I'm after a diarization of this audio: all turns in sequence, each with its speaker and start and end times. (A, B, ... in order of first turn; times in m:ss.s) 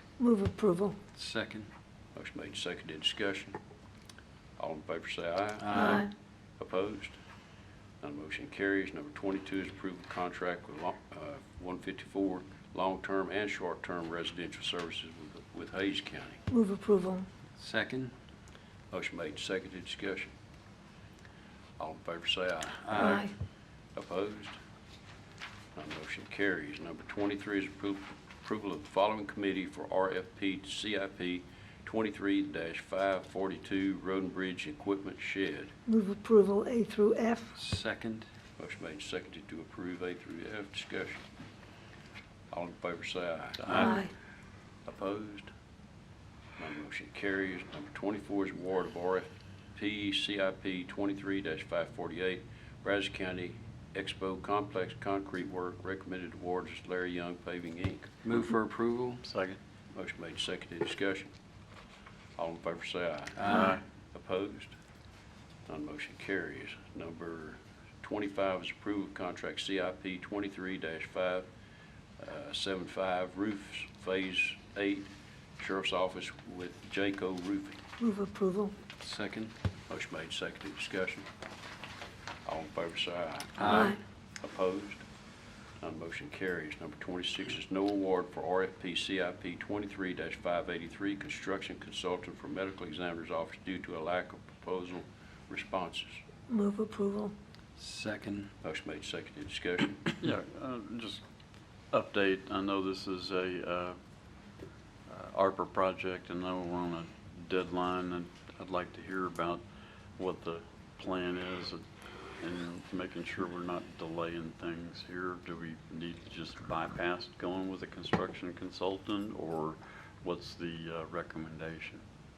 0:00.2-0:01.0 A
0:01.1-0:01.7 B
0:02.1-0:03.6 C
0:04.6-0:06.1 C
0:05.6-0:06.0 B
0:05.7-0:06.1 A
0:06.6-0:07.2 C
0:08.0-0:16.4 C
0:16.5-0:17.2 A
0:17.6-0:18.1 B
0:18.9-0:20.3 C
0:21.8-0:23.2 C
0:22.8-0:23.2 B
0:23.0-0:23.3 A
0:23.9-0:24.6 C
0:25.7-0:35.7 C
0:35.8-0:37.5 A
0:37.6-0:38.3 B
0:38.6-0:41.2 C
0:42.5-0:44.0 C
0:43.8-0:44.1 A
0:44.8-0:45.5 C
0:46.6-0:58.1 C
0:58.2-0:59.3 B
0:59.2-0:59.5 D
0:59.9-1:01.3 C
1:02.4-1:04.8 C
1:03.4-1:03.8 B
1:05.7-1:11.4 C
1:12.2-1:17.8 C
1:18.0-1:18.7 A
1:19.0-1:19.5 B
1:19.9-1:21.2 C
1:22.4-1:25.0 C
1:23.6-1:23.9 B
1:25.8-1:36.2 C
1:36.5-1:37.3 A
1:37.8-1:38.5 B
1:38.6-1:40.1 C
1:40.2-1:41.2 D
1:41.9-1:44.0 D
1:45.1-1:49.6 D
1:50.2-1:51.8 D
1:52.3-2:02.0 D